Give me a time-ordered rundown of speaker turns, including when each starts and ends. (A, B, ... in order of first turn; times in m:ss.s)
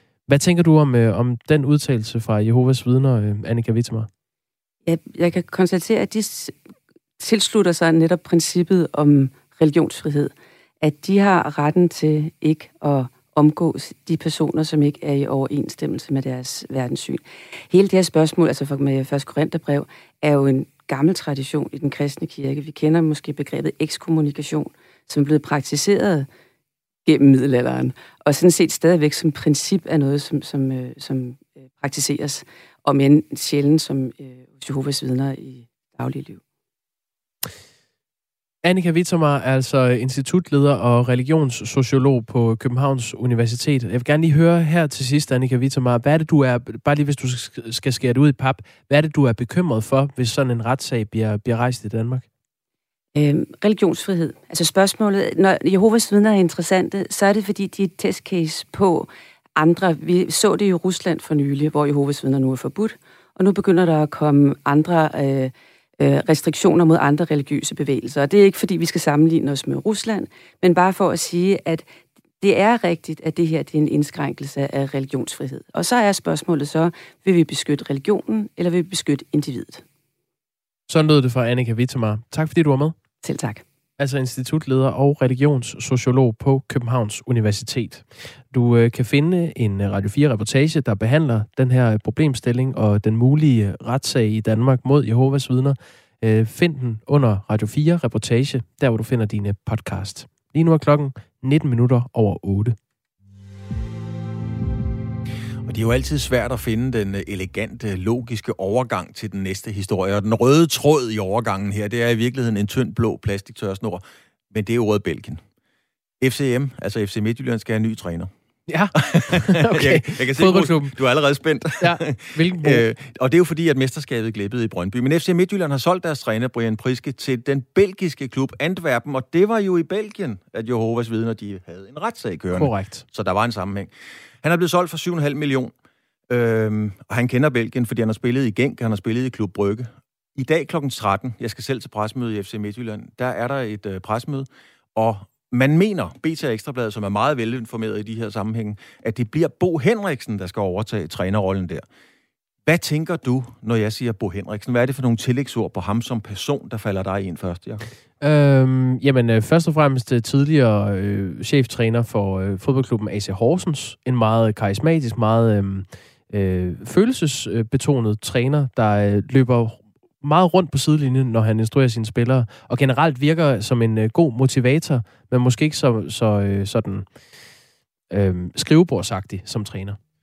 0:00.3-0:04.1 A
0:04.8-0:26.3 B
0:27.1-0:36.4 B
0:38.6-0:52.2 A
0:53.1-1:11.9 B
1:12.4-1:19.8 B
1:20.9-1:22.9 A
1:23.2-1:23.6 B
1:24.0-1:42.8 A
1:45.6-1:55.4 C
1:56.2-1:58.3 C
1:58.7-2:00.9 A
1:59.0-2:13.9 C
2:01.8-2:02.8 A
2:12.5-2:13.0 A
2:14.4-2:15.7 C
2:16.3-2:31.8 C
2:32.6-2:37.9 C
2:38.2-2:57.1 A
2:58.1-3:00.0 A